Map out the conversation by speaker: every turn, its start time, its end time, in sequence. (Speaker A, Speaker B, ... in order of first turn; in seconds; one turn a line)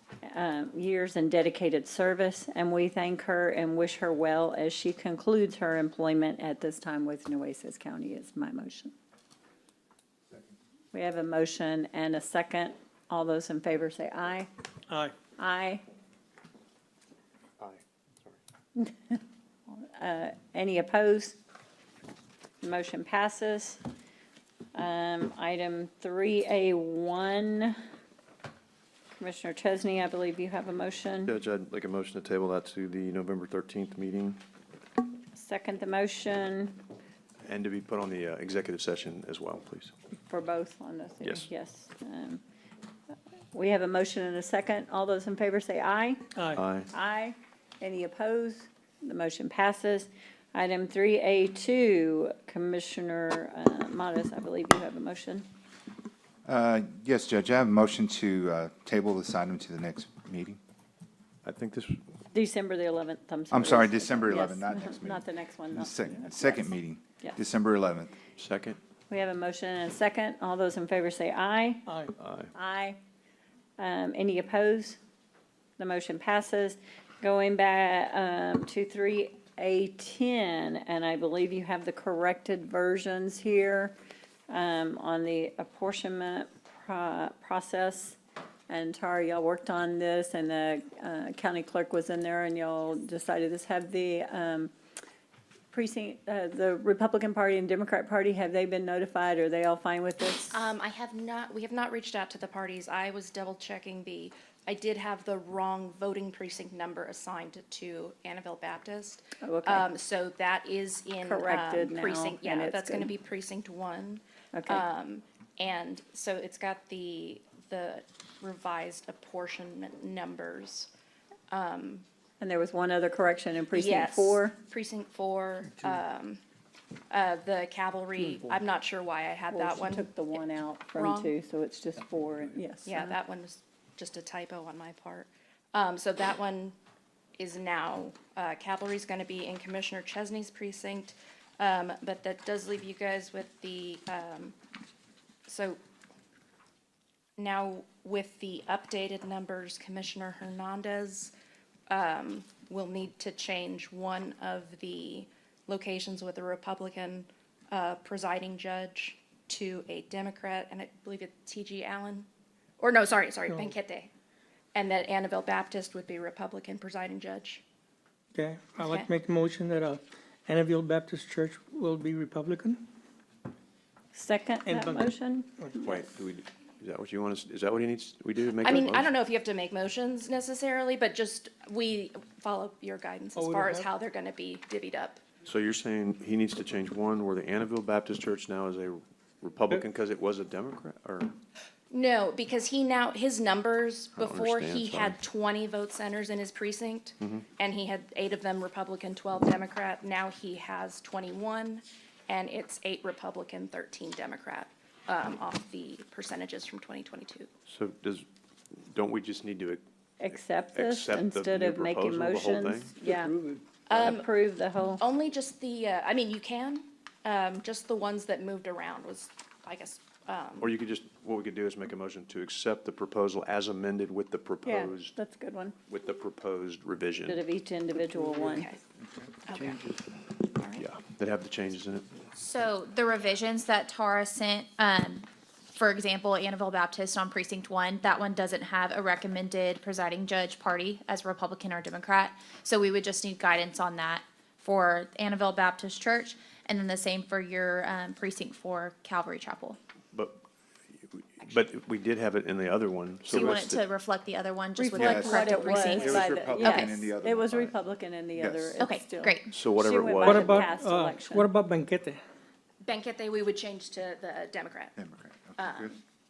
Speaker A: 0.2-8.9
Speaker A: 10.9-14.5
Speaker B: 14.9-15.1
Speaker A: 15.4-15.8
Speaker C: 17.6-18.4
Speaker A: 18.8-21.4
Speaker A: 22.6-23.8
Speaker A: 24.7-27.8
Speaker A: 29.2-31.3
Speaker C: 31.2-34.4
Speaker A: 35.3-36.8
Speaker C: 37.4-39.9
Speaker A: 40.3-42.4
Speaker C: 41.2-41.5
Speaker A: 43.5-46.2
Speaker B: 46.4-46.6
Speaker C: 46.5-46.9
Speaker A: 46.9-55.5
Speaker D: 56.4-60.6
Speaker C: 61.4-62.0
Speaker A: 62.3-67.4
Speaker D: 63.5-68.1
Speaker C: 68.4-68.8
Speaker A: 69.1-71.9
Speaker B: 71.9-72.1
Speaker C: 72.2-72.5
Speaker A: 72.5-73.0
Speaker A: 73.8-75.0
Speaker A: 75.8-83.9
Speaker A: 84.5-88.2
Speaker A: 88.7-94.7
Speaker A: 95.7-100.6
Speaker E: 100.5-120.9
Speaker A: 109.4-109.8
Speaker A: 111.2-113.1
Speaker A: 114.5-114.8
Speaker E: 121.5-122.0
Speaker A: 122.4-124.5
Speaker E: 123.7-126.4
Speaker E: 127.1-130.4
Speaker A: 129.5-133.1
Speaker E: 130.9-131.3
Speaker E: 132.8-136.7
Speaker E: 137.4-144.5
Speaker E: 145.4-145.8
Speaker E: 147.4-151.3
Speaker E: 151.9-162.3
Speaker E: 162.8-164.1
Speaker E: 164.7-167.6
Speaker B: 168.3-172.8
Speaker E: 168.8-169.1
Speaker A: 174.1-176.0
Speaker B: 174.6-175.1
Speaker C: 175.7-179.1
Speaker E: 178.6-185.2
Speaker B: 183.3-183.9
Speaker C: 185.4-191.3
Speaker E: 191.9-207.5
Speaker C: 194.1-195.2
Speaker C: 207.7-213.0
Speaker A: 210.2-215.0
Speaker E: 213.9-214.3
Speaker E: 215.0-220.7
Speaker C: 220.6-225.1
Speaker A: 224.6-225.8
Speaker C: 225.9-227.4
Speaker A: 227.2-228.7
Speaker E: 228.4-228.8
Speaker E: 229.4-230.8
Speaker C: 230.8-232.1
Speaker F: 232.3-249.8
Speaker C: 250.1-250.4
Speaker C: 251.0-253.8
Speaker F: 253.3-256.9
Speaker A: 254.8-261.5
Speaker D: 254.9-257.8
Speaker D: 258.4-258.8
Speaker F: 258.8-259.5
Speaker C: 259.5-260.6
Speaker B: 260.2-262.2
Speaker E: 262.8-264.9
Speaker D: 264.9-265.9
Speaker E: 265.6-266.0